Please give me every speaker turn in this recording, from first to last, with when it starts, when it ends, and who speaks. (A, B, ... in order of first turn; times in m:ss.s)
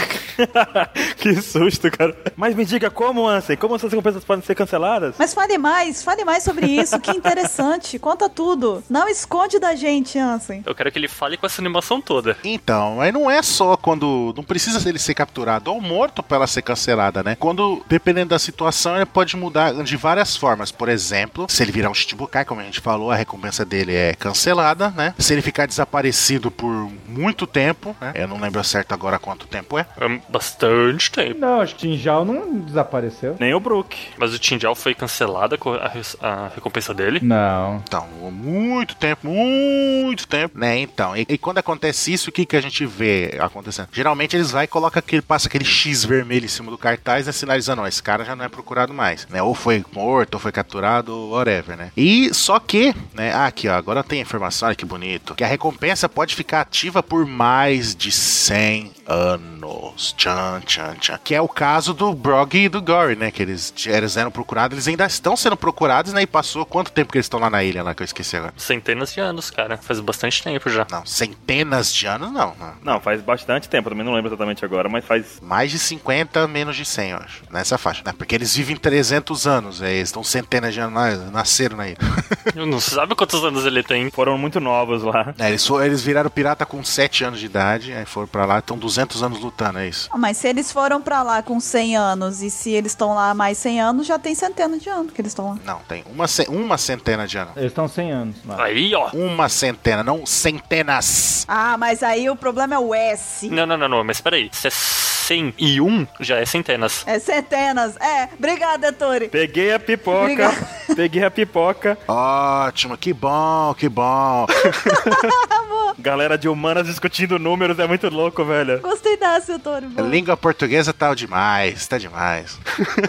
0:00.4-0:05.2 A
0:05.2-0:10.6 B
0:06.6-0:07.4 A
0:10.6-0:12.4 C
0:12.4-0:29.9 D
0:30.0-0:31.4 C
0:31.3-0:33.4 E
0:33.4-0:34.1 A
0:34.2-0:37.2 C
0:37.2-0:37.8 E
0:37.9-1:08.5 D
1:08.6-1:10.9 C
1:10.9-1:13.0 D
1:12.8-1:15.4 A
1:15.4-1:22.4 D
1:22.5-1:24.1 C
1:24.1-1:25.4 A
1:25.4-1:30.1 D
1:30.1-1:35.6 B
1:35.6-1:37.6 D
1:37.6-1:38.7 E
1:38.5-1:39.1 C
1:39.1-1:41.4 D
1:41.5-1:43.6 B
1:43.5-1:47.0 C
1:47.0-1:49.3 B
1:49.3-1:52.0 A
1:50.2-1:50.6 B
1:52.1-1:55.1 D
1:54.7-1:55.9 B
1:56.0-1:58.8 A
1:58.8-2:00.2 B
2:00.0-2:02.6 D